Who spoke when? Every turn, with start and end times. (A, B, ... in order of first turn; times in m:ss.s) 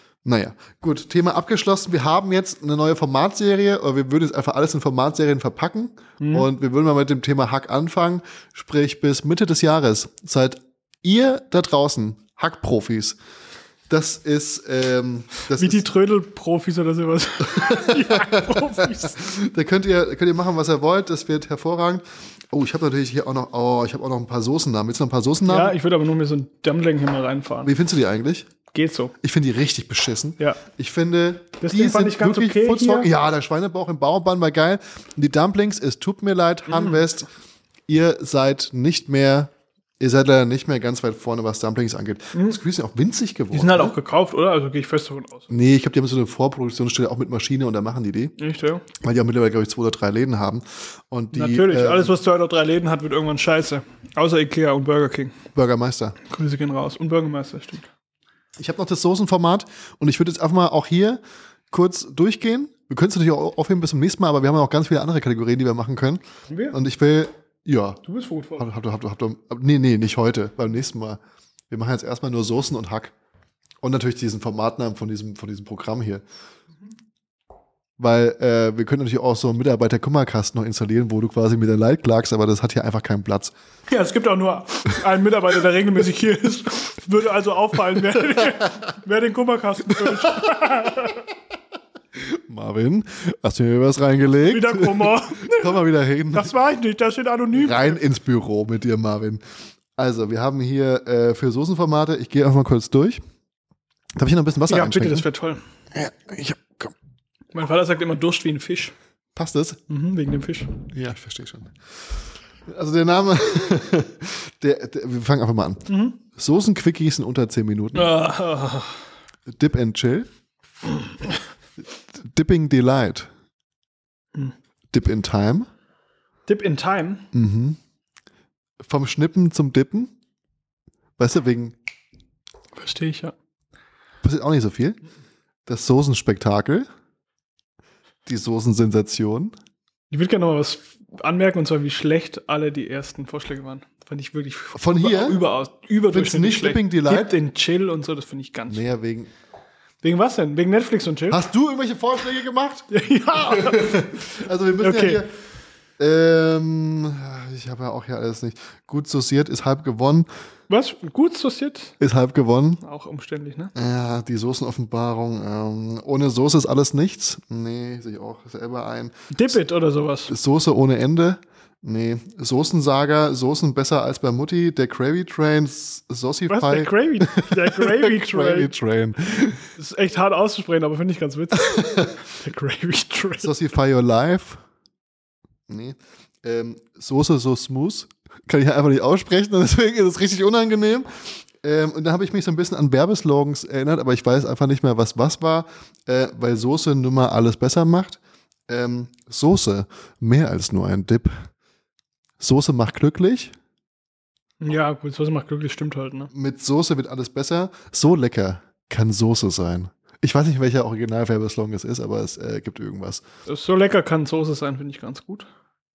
0:00.2-0:13.2 A
0:06.2-0:06.5 B
0:13.9-0:15.8 A
0:15.5-0:19.2 B
0:17.4-0:25.8 A
0:25.5-0:27.7 B
0:27.6-0:28.5 A
0:28.7-0:29.1 B
0:29.2-0:37.3 A
0:31.6-0:33.1 B
0:36.7-0:37.0 B
0:37.9-0:43.9 A
0:42.3-0:42.6 B
0:43.5-0:45.5 B
0:45.5-0:48.3 A
0:48.4-0:48.8 B
0:49.0-0:52.2 A
0:51.3-0:55.4 B
0:55.5-0:56.2 A
0:56.2-0:57.9 B
0:58.6-1:01.2 A
1:01.7-1:08.0 A
1:06.5-1:06.8 B
1:08.0-1:08.6 B
1:08.6-1:13.1 A
1:13.8-1:16.2 A
1:18.0-1:23.5 A
1:23.9-1:31.2 B
1:28.3-1:28.7 A
1:30.0-1:30.5 A
1:32.1-1:36.5 A
1:34.5-1:35.8 B
1:36.3-1:38.0 B
1:37.5-1:39.4 A
1:40.0-1:43.2 A
1:44.2-1:45.2 A
1:44.7-1:45.6 B
1:45.9-1:46.9 A
1:47.5-1:48.9 B
1:49.4-1:49.8 A
1:49.9-1:50.8 B
1:50.9-1:58.2 A
1:55.9-1:56.2 B
1:57.9-1:59.0 B
1:59.5-2:00.3 A
2:02.1-2:03.3 A
2:04.9-2:05.7 A
2:06.5-2:07.2 B
2:07.3-2:07.8 A
2:08.8-2:10.1 A
2:11.2-2:11.8 A
2:12.8-2:13.3 B
2:14.2-2:15.0 A
2:15.7-2:16.9 A
2:18.2-2:19.5 A
2:20.1-2:28.8 B
2:24.7-2:25.4 A
2:26.1-2:27.3 A
2:28.7-2:29.3 A
2:30.0-2:31.4 B
2:31.3-2:35.3 A
2:32.9-2:34.0 B
2:34.8-2:35.2 B
2:36.0-2:40.3 A
2:40.7-2:41.9 B
2:42.0-2:42.8 A
2:42.8-2:43.7 B
2:43.7-2:49.3 A
2:49.3-2:50.3 B
2:50.3-2:59.6 A
2:56.5-2:58.7 B
2:59.8-3:03.5 B
3:01.6-3:02.2 A
3:03.4-3:04.6 A
3:05.7-3:21.4 A
3:22.4-3:23.5 A
3:24.6-3:26.3 B
3:26.3-3:33.2 A
3:33.5-3:35.5 B